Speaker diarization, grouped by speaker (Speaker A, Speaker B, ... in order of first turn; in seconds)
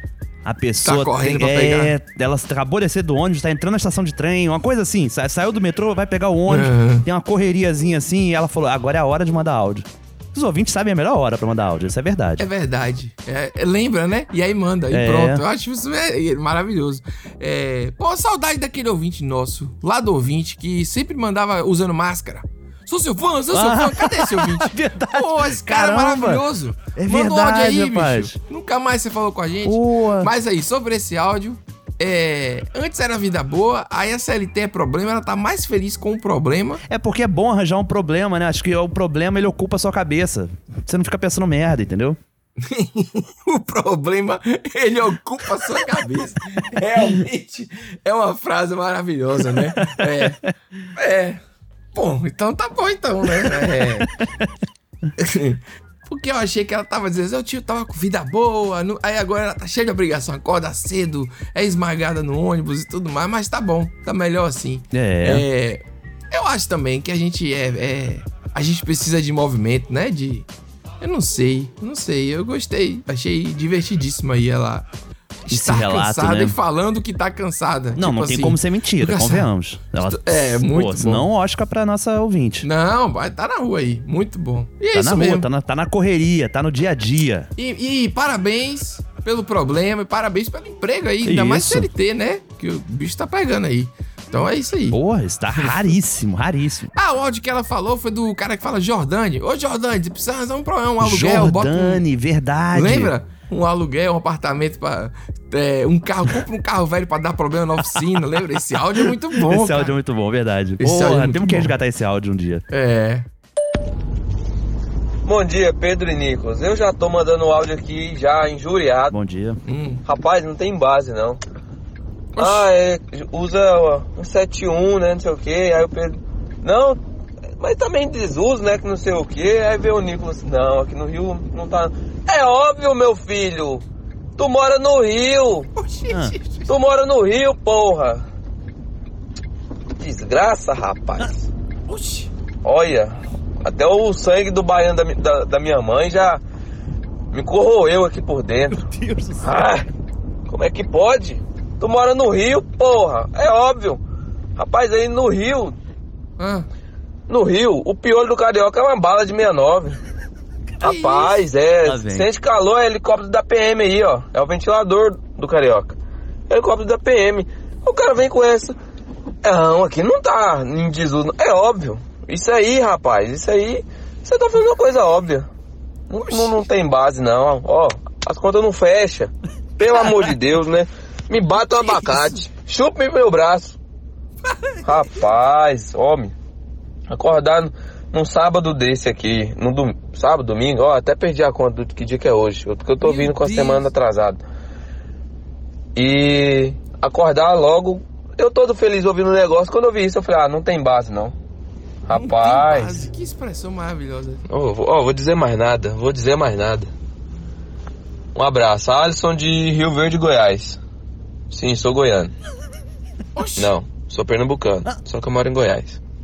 Speaker A: 0.4-12.5, 14.9-15.4, 23.5-26.4, 26.9-28.4, 29.6-30.3, 36.9-42.2, 64.9-65.5, 75.5-76.6, 78.0-82.7, 84.9-87.5, 91.2-91.9, 94.9-96.9, 101.0-103.1, 109.5-112.7, 119.1-119.6, 136.1-136.3, 148.9-149.7, 161.8-162.3
Speaker B: 0.8-1.9, 6.5-7.1, 12.4-36.8, 42.6-50.4, 51.0-51.4, 51.9-54.1, 55.2-70.5, 71.0-74.9, 75.5-79.5, 80.0-81.3, 82.6-85.5, 87.6-95.0, 95.5-96.0, 96.9-102.0, 102.7-109.9, 110.8-111.7, 112.7-113.3, 119.7-120.0, 122.4-122.7, 135.8-136.7, 141.9-142.3, 156.4-156.7, 160.8-161.5, 176.2-176.6, 181.6-182.4, 193.0-193.9, 202.1-204.4, 213.4-213.8
Speaker C: 115.2-119.1, 120.0-121.4, 122.4-127.0, 127.6-133.8, 134.4-135.7, 136.7-138.2, 140.0-141.5, 142.6-146.4, 147.3-148.8, 149.4-149.9, 150.5-154.0, 154.6-155.8, 157.3-160.0, 160.8-166.0, 166.5-168.8, 169.4-175.5, 176.1-183.8, 184.8-186.3, 187.1-194.4, 195.9-201.3, 202.1-203.0, 204.5-206.9, 208.3-210.8, 211.5-212.3, 213.6-216.0